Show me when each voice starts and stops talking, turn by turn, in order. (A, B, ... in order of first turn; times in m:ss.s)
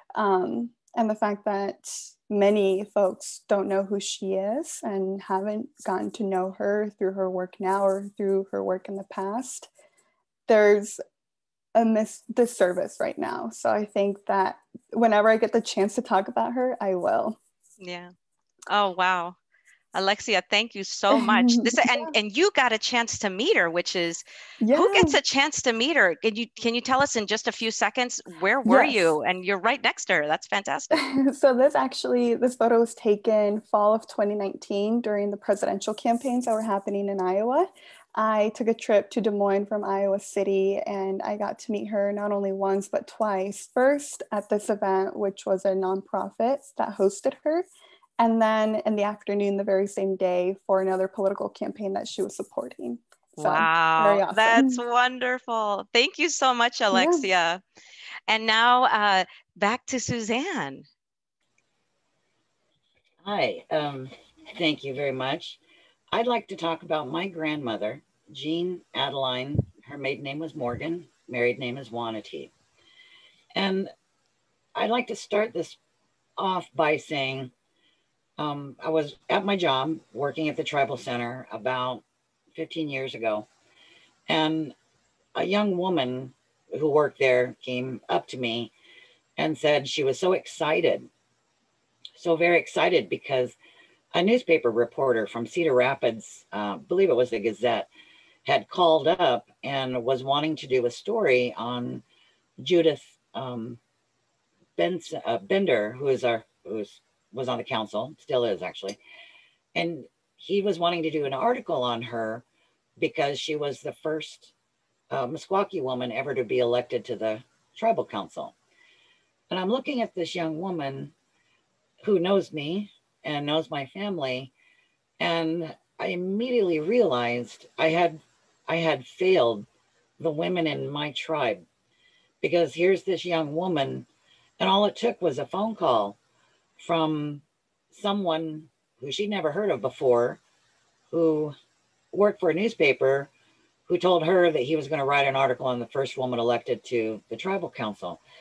0:00.1-0:09.7 A
0:10.5-0:11.0 A
0:11.8-0:17.4 A
0:17.8-0:18.1 B
0:18.7-0:19.4 B
0:19.9-0:31.0 B
0:21.1-0:22.1 A
0:24.6-0:25.2 A
0:28.6-0:29.1 A
0:30.9-0:47.6 A
0:48.2-0:54.8 A
0:53.4-0:57.6 B
0:56.9-0:57.3 A
0:58.3-1:00.9 B
1:03.2-1:05.6 C
1:06.1-1:12.5 C
1:13.5-1:13.9 C
1:14.8-1:15.8 C
1:16.4-1:17.5 C
1:18.4-1:23.5 C
1:24.3-1:24.8 C
1:25.4-1:28.7 C
1:29.4-1:31.1 C
1:32.1-1:33.6 C
1:34.1-1:37.9 C
1:38.4-1:42.0 C
1:42.6-1:43.8 C
1:44.8-1:49.0 C
1:49.8-1:52.4 C
1:53.0-1:54.5 C
1:55.1-1:58.5 C
1:59.5-2:01.1 C
2:02.0-2:04.5 C
2:05.2-2:09.7 C
2:10.2-2:11.6 C
2:12.4-2:14.1 C
2:14.6-2:16.2 C
2:16.8-2:20.4 C
2:21.1-2:21.6 C
2:22.1-2:23.3 C
2:23.9-2:28.2 C